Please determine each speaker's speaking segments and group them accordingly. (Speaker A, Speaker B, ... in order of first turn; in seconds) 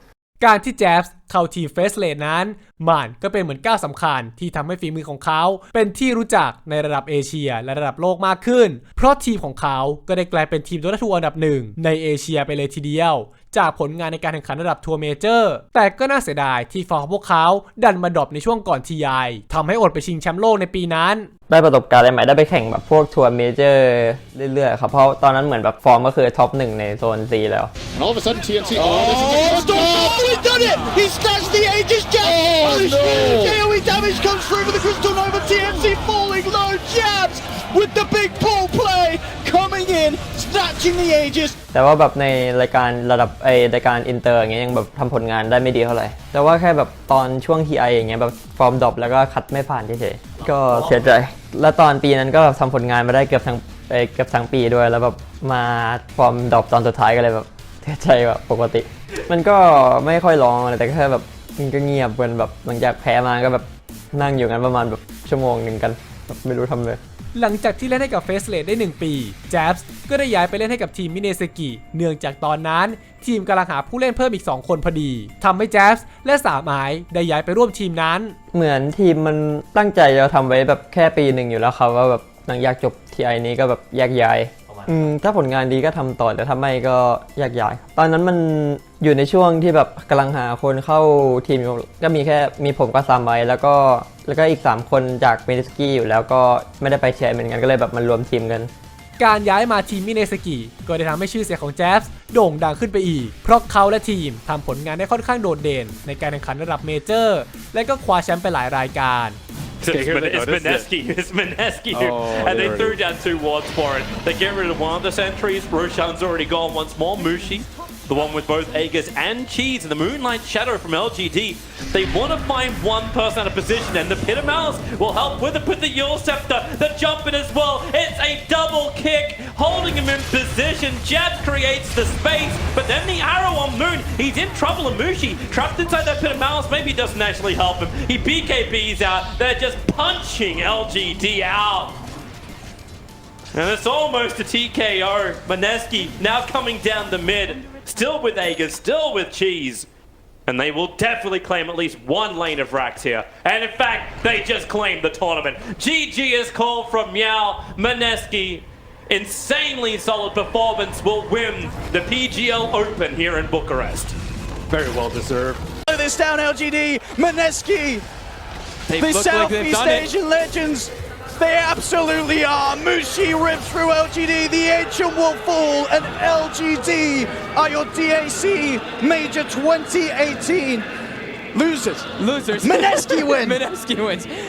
Speaker A: 0.4-21.3, 67.3-78.4, 99.2-109.4
Speaker B: 21.5-27.7, 41.7-67.0, 78.5-98.7
Speaker C: 27.9-30.4, 32.4-33.6
Speaker D: 28.7-41.5, 165.9-168.1, 168.9-180.9, 181.5-183.7
Speaker E: 109.8-142.0, 143.5-149.9, 150.4-164.2, 164.7-165.7
Speaker F: 169.0-169.7, 182.5-184.2